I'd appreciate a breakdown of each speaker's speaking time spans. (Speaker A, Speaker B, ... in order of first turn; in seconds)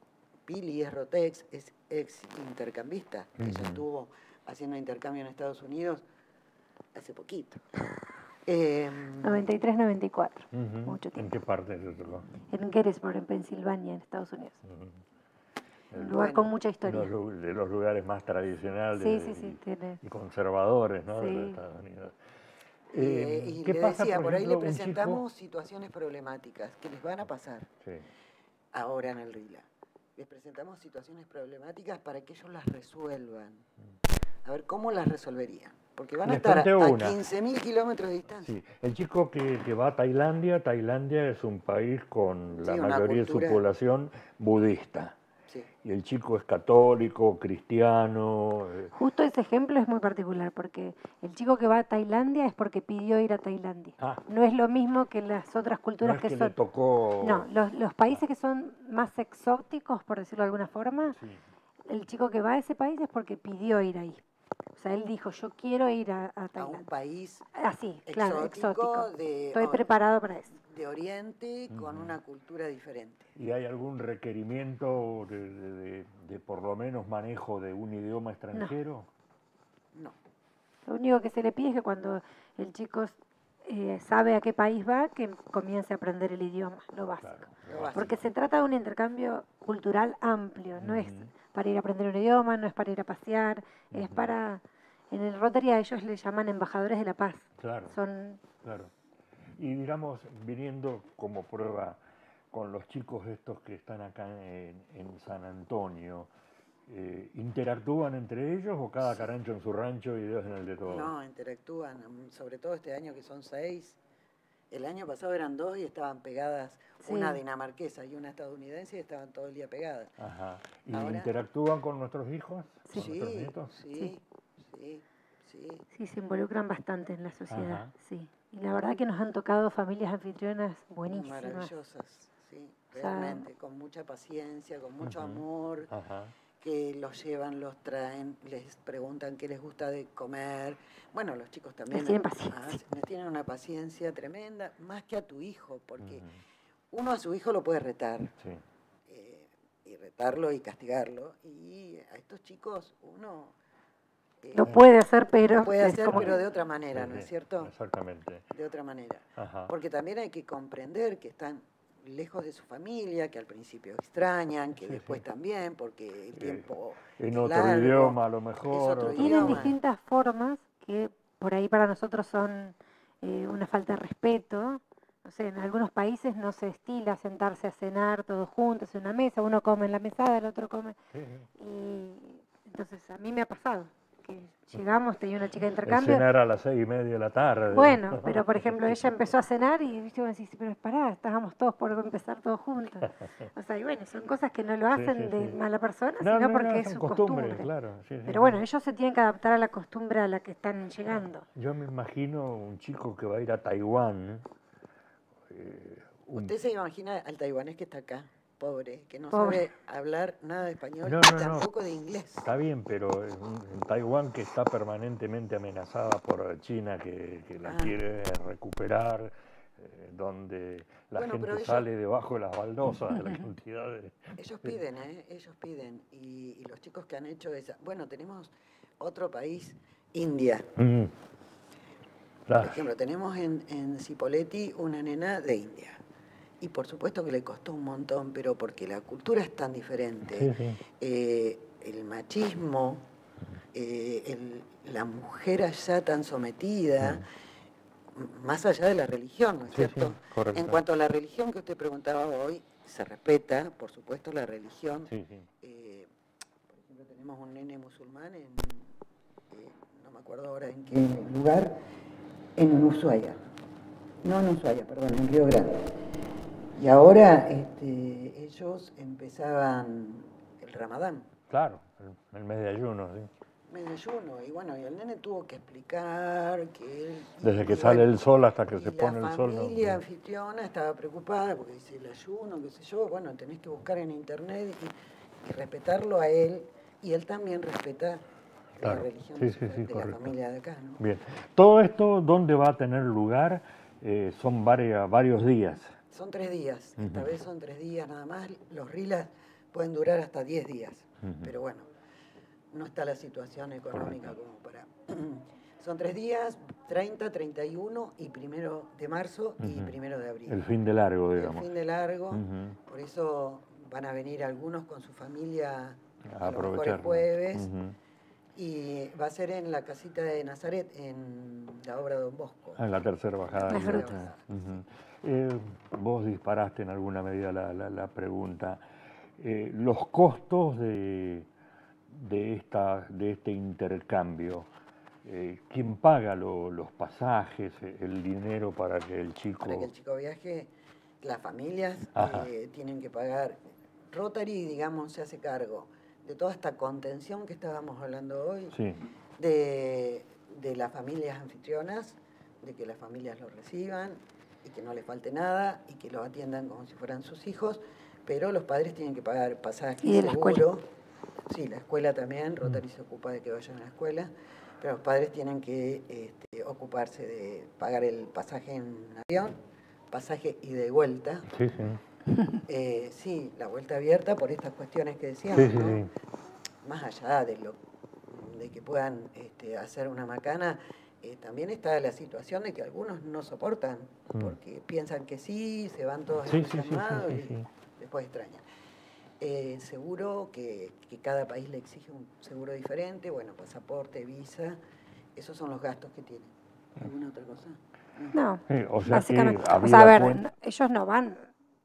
Speaker A: 0.5-6.0, 6.9-7.6, 8.5-9.4, 16.1-16.5, 22.9-27.7, 28.7-29.6, 30.2-33.7, 34.5-38.5, 42.6-43.6, 66.5-67.5, 68.1-69.9, 70.6-73.3, 87.7-88.2, 110.8-114.0, 114.7-120.1, 120.9-121.3, 123.0-125.8, 131.1-135.9, 136.6-146.3, 146.9-148.3, 149.1-153.6, 154.4-154.7, 155.6-157.7, 158.5-169.8, 206.3-212.5, 217.6-218.0, 221.1-221.9, 224.4-230.7, 232.5-236.0, 236.6-243.1, 243.7-247.2, 248.2-256.1, 256.7-258.9, 259.5-261.8, 262.6-263.4, 264.2-265.9, 266.8-271.3, 273.7-278.2, 278.8-288.2, 288.8-291.0, 296.1-301.9, 302.7-310.6, 311.4-317.7, 318.6-322.9, 323.4-324.7, 339.6-343.6, 344.1-348.8, 349.4-360.9, 361.5-369.6, 370.1-371.5, 372.7-376.0, 376.8-377.8, 378.3-388.6, 389.4-394.8, 395.4-398.3
Speaker B: 3.4-3.8, 10.5-12.3, 14.7-15.0, 16.9-22.1, 22.9-25.2, 36.2-37.2, 38.4-45.1, 45.8-48.9, 56.0-57.5, 61.2-61.4, 71.7-72.2, 73.4-79.1, 87.2-88.2, 90.8-91.3, 93.9-94.3, 97.6-97.9, 98.6-98.9, 99.6-102.0, 102.5-106.3, 106.9-111.1, 120.2-123.8, 127.5-127.9, 135.0-136.3, 146.0-146.4, 148.4-148.6, 156.1-156.4, 156.9-158.5, 159.4-159.7, 164.8-165.2, 166.4-166.7, 167.2-169.7, 181.1-181.5, 185.9-189.1, 194.9-195.6, 196.2-198.6, 201.6-204.4, 205.5-206.5, 211.0-211.7, 212.4-224.8, 230.8-231.1, 232.5-232.8, 240.3-240.8, 249.7-250.8, 255.1-255.5, 271.5-273.3, 277.4-280.0, 288.8-290.3, 291.0-295.9, 297.0-297.3, 301.2-301.5, 303.9-304.4, 309.6-309.9, 310.5-311.7, 312.3-312.8, 316.3-317.9, 322.8-328.8, 329.4-331.5, 332.1-334.7, 335.2-339.9, 342.2-342.5, 348.7-349.0, 371.5-372.0, 375.5-376.1, 386.4-387.7, 398.7-400.4
Speaker C: 9.2-11.3, 12.5-14.6, 15.9-17.1, 19.0-20.0, 21.1-21.6, 48.9-56.6, 57.2-61.2, 61.9-64.2, 64.8-66.9, 67.5-70.6, 80.9-83.2, 83.7-98.4, 117.0-117.4, 122.9-123.1, 125.9-131.7, 132.9-133.5, 141.9-142.8, 154.6-156.4, 169.2-181.0, 181.6-186.3, 187.7-197.7, 198.3-201.4, 209.3-209.7, 323.7-324.1, 360.0-360.6, 398.3-401.5